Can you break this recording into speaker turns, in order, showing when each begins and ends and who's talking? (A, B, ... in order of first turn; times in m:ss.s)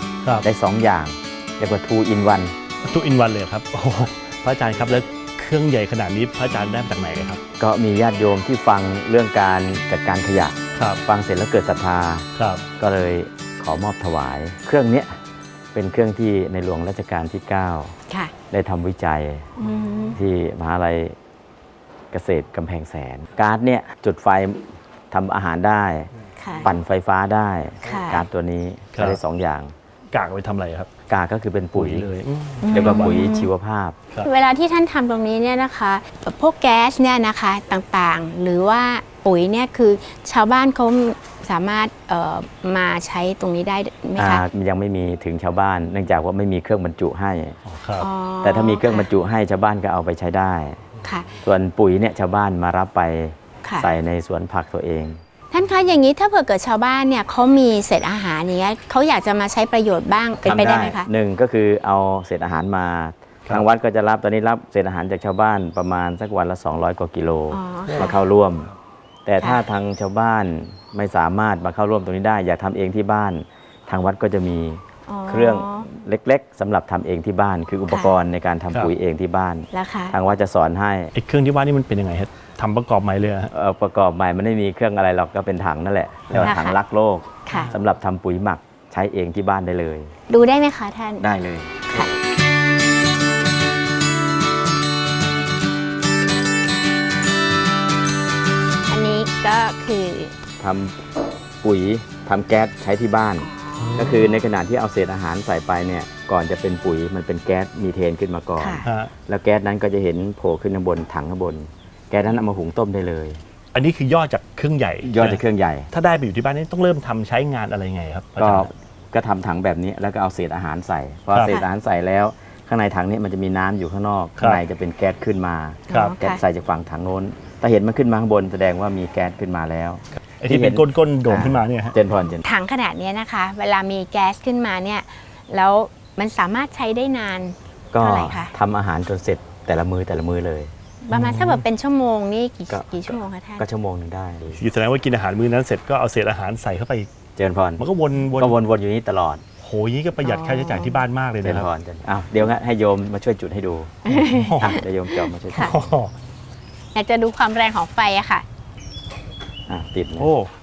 0:00.4-0:02.5 A
0:02.8-0:07.4 B
0:07.6-0:12.3 A
0:10.8-0:11.0 B
0:12.4-0:12.6 B
0:12.8-0:15.1 A
0:15.7-0:17.9 A
0:18.5-0:19.5 A
0:19.6-0:20.2 C
0:20.1-0:21.2 A
0:22.1-0:26.1 A
0:26.4-0:26.7 C
0:26.6-0:29.7 A
0:27.8-0:28.2 C
0:30.1-0:30.9 B
0:31.1-0:32.0 A
0:31.7-0:33.2 B
0:32.6-0:33.5 C
0:32.7-0:34.0 A
0:34.2-0:44.4 C
0:44.2-0:47.6 A
0:47.6-0:48.1 B
0:48.0-0:49.1 C
0:48.4-0:50.8 A
0:51.0-0:51.3 C
0:51.4-0:55.2 A
0:55.5-1:01.1 C
1:00.4-1:08.7 A
1:07.5-1:08.2 C
1:09.2-1:21.1 A
1:15.1-1:15.9 C
1:19.7-1:20.2 C
1:21.1-1:23.5 B
1:23.5-1:30.1 A
1:26.4-1:26.8 C
1:27.4-1:27.7 C
1:27.5-1:27.7 B
1:30.3-1:31.2 C
1:31.2-1:32.1 A
1:38.9-1:40.3 C
1:40.6-1:41.0 A
1:41.6-1:53.4 A
1:43.4-1:44.4 C
1:43.8-1:44.2 B
1:48.6-1:48.8 C
1:48.8-1:49.1 B
1:53.7-1:55.4 B
1:55.0-1:55.9 A
1:55.9-1:58.7 B
1:58.4-2:12.4 A
2:05.9-2:06.4 C
2:10.4-2:12.0 B
2:12.4-2:18.5 C
2:17.9-2:20.7 A
2:21.0-2:23.6 C
2:21.1-2:21.6 B
2:22.7-2:24.6 A
2:24.6-2:27.1 B
2:27.4-2:27.8 A
2:27.8-2:28.5 B
2:28.4-2:29.4 A
2:29.6-2:31.7 B
2:30.2-2:31.0 C
2:31.4-2:34.0 A
2:34.0-2:34.8 C
2:34.2-2:34.8 B
2:34.6-2:35.8 A
2:35.6-2:36.1 B
2:36.9-2:38.4 C
2:39.7-2:40.3 A
2:40.2-2:40.5 B